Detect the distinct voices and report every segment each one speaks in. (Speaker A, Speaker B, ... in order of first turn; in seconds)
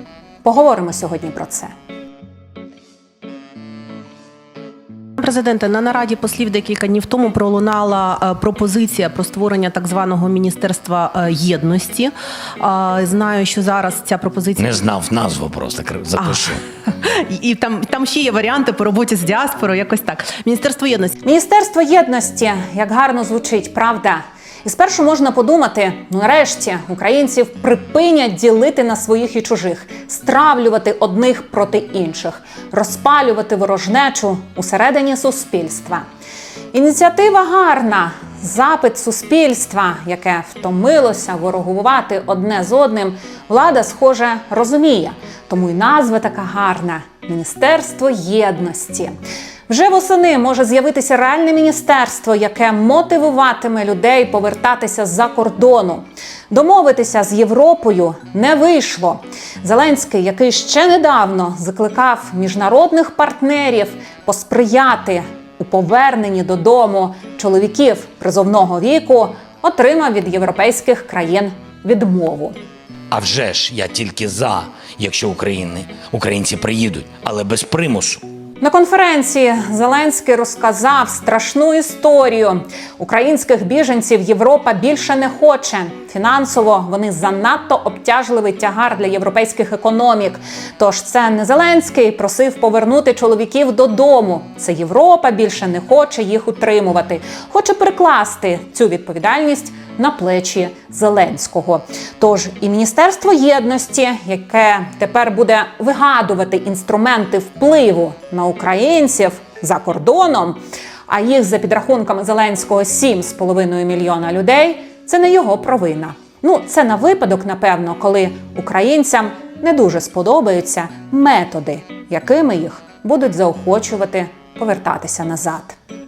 Speaker A: 0.4-1.7, 21.2-36.0, 36.7-49.1, 49.7-72.6, 78.6-125.8
Speaker B: 5.2-14.9, 16.2-21.1
Speaker C: 14.6-16.6, 73.1-78.2